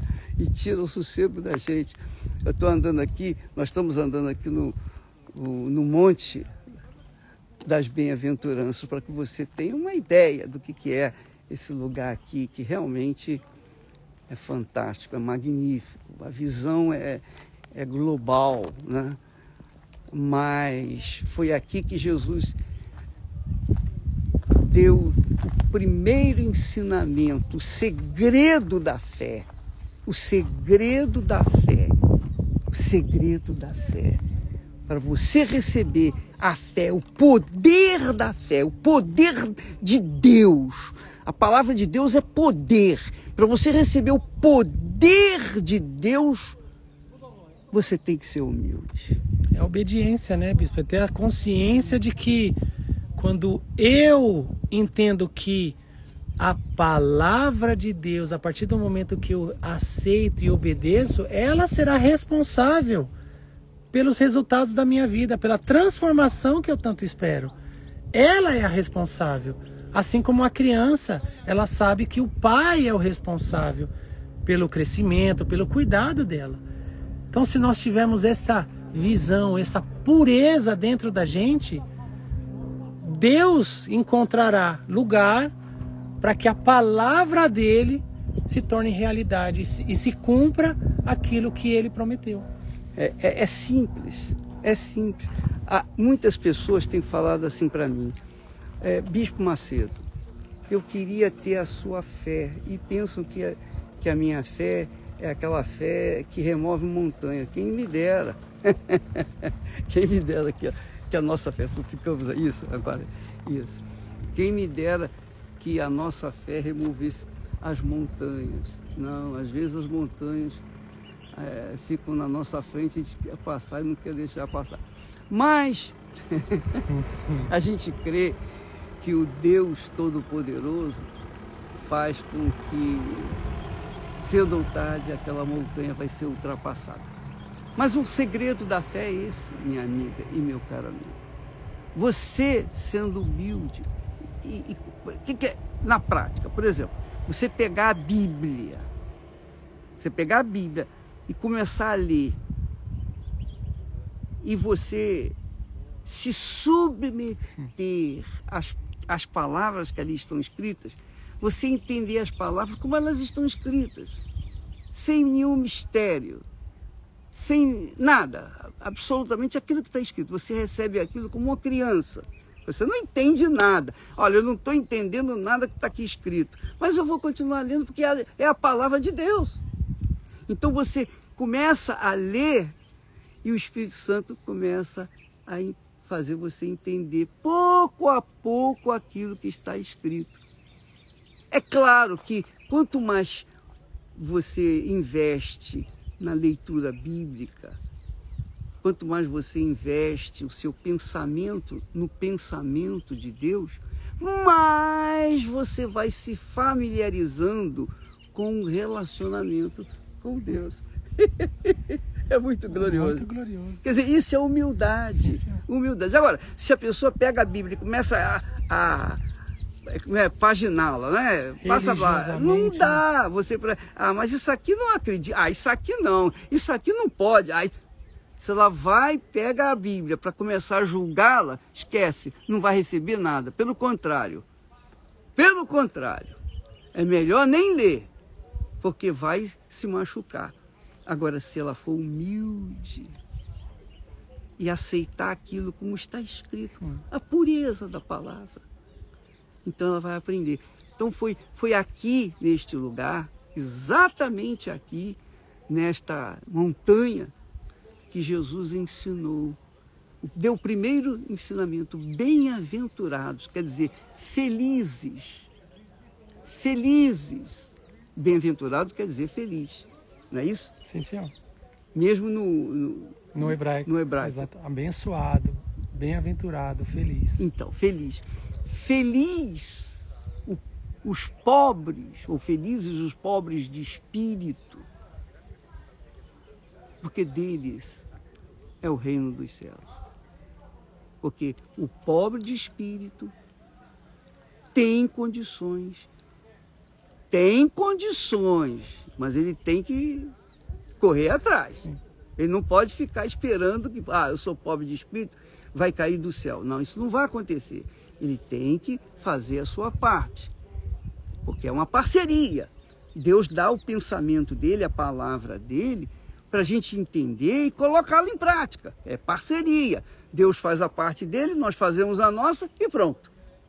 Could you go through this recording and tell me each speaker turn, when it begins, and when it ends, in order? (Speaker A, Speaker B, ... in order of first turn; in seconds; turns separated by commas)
Speaker A: 0.4-4.8, Speaker A: 5.3-6.5, Speaker A: 7.6-13.4, Speaker A: 14.3-19.2, Speaker A: 20.1-22.6, Speaker A: 24.6-29.5, Speaker A: 30.1-31.9, Speaker A: 32.7-34.2, Speaker A: 34.9-46.6, Speaker A: 47.7-49.2, Speaker B: 49.5-52.6, Speaker B: 53.1-55.8, Speaker B: 56.4-63.1, Speaker B: 63.9-67.5, Speaker B: 68.1-73.9, Speaker B: 74.4-76.6, Speaker B: 77.3-81.8, Speaker B: 83.0-85.5, Speaker B: 86.2-92.5, Speaker A: 93.0-98.2, Speaker A: 98.8-100.0, Speaker A: 100.7-113.8, Speaker A: 114.3-120.6, Speaker A: 121.3-126.9, Speaker B: 126.9-127.4, Speaker A: 127.4-128.4, Speaker A: 129.0-131.1, Speaker A: 131.7-133.4, Speaker A: 134.2-137.1, Speaker A: 137.8-141.2, Speaker A: 141.9-143.9, Speaker A: 144.4-148.9, Speaker A: 150.0-152.4, Speaker A: 154.4-155.3, Speaker A: 156.1-164.2, Speaker A: 164.9-166.4, Speaker A: 167.3-179.6, Speaker A: 180.5-182.7, Speaker A: 183.4-190.4, Speaker A: 191.5-193.5, Speaker A: 194.2-197.8, Speaker A: 198.8-213.3, Speaker B: 212.7-213.8, Speaker A: 213.8-219.2, Speaker B: 215.1-215.6, Speaker A: 219.8-227.7, Speaker B: 221.6-223.0, Speaker A: 228.4-234.4, Speaker A: 235.3-236.4, Speaker A: 236.9-238.1, Speaker A: 238.8-240.5, Speaker A: 241.1-243.2, Speaker A: 244.6-248.6, Speaker A: 249.6-257.3, Speaker A: 258.1-259.6, Speaker A: 260.2-265.5, Speaker A: 266.4-270.7, Speaker B: 270.9-271.3, Speaker A: 271.9-274.4, Speaker B: 273.3-277.4, Speaker A: 277.4-284.9, Speaker A: 287.0-288.0, Speaker A: 288.8-290.0, Speaker A: 291.2-293.3, Speaker A: 294.7-296.1, Speaker A: 297.3-300.3, Speaker A: 301.0-310.5, Speaker A: 311.4-323.3